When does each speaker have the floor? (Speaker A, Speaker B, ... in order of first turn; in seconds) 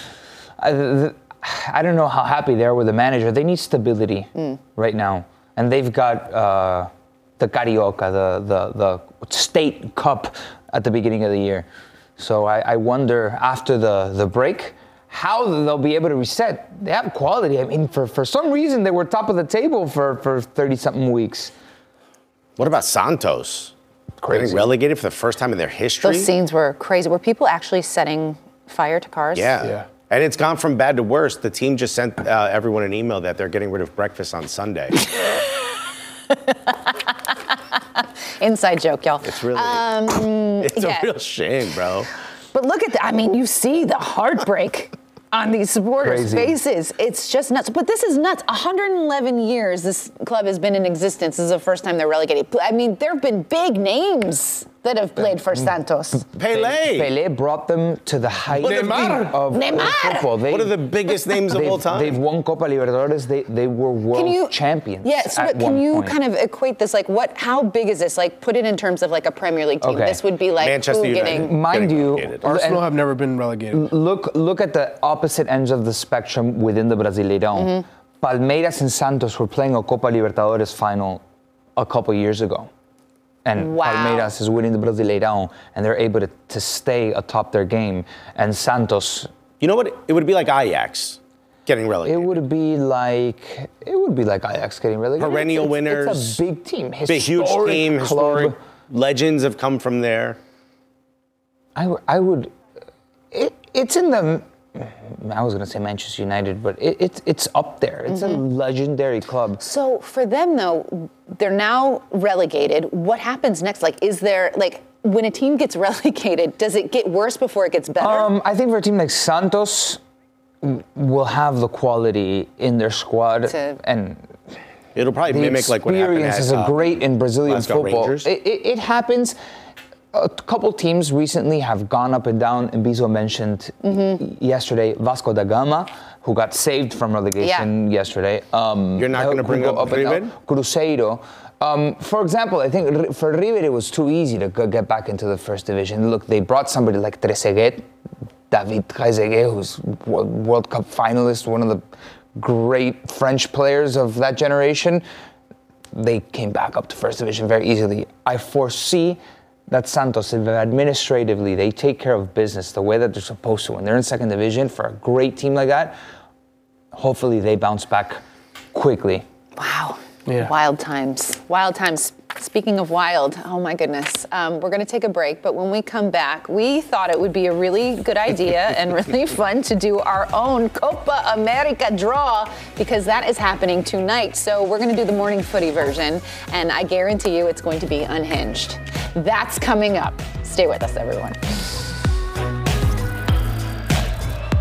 Speaker A: 0.6-11.7, 12.2-21.5, 24.2-24.7, 46.0-46.5, 55.2-55.7, 56.3-60.8, 61.5-66.2, 69.8-70.2, 71.3-72.8, 73.7-81.2, 81.8-82.7, 83.4-89.3, 92.0-98.5, 101.8-102.5, 103.3-109.6, 118.0-120.0, 120.6-124.3, 125.3-129.3, 130.1-147.9, 148.5-151.8, 152.3-155.0, 155.9-165.9, 166.9-168.2, 168.7-169.2
Speaker B: 22.6-23.7, 24.3-26.3, 29.3-35.0, 39.2-42.1, 56.4-57.1, 60.5-62.2, 70.6-72.4, 89.6-92.3, 95.2-96.4, 97.1-100.4, 125.0-126.9, 127.5-128.3, 139.0-140.3
Speaker C: 26.0-29.7, 35.1-35.5, 36.3-41.1, 42.5-56.2, 58.6-60.3, 64.1-71.5, 77.5-77.8, 83.6-84.3, 108.1-108.4, 109.6-118.3, 123.5-123.8, 133.8-134.2, 137.4-137.7, 169.6-191.4
Speaker D: 29.6-29.9, 58.5-59.5, 72.4-73.9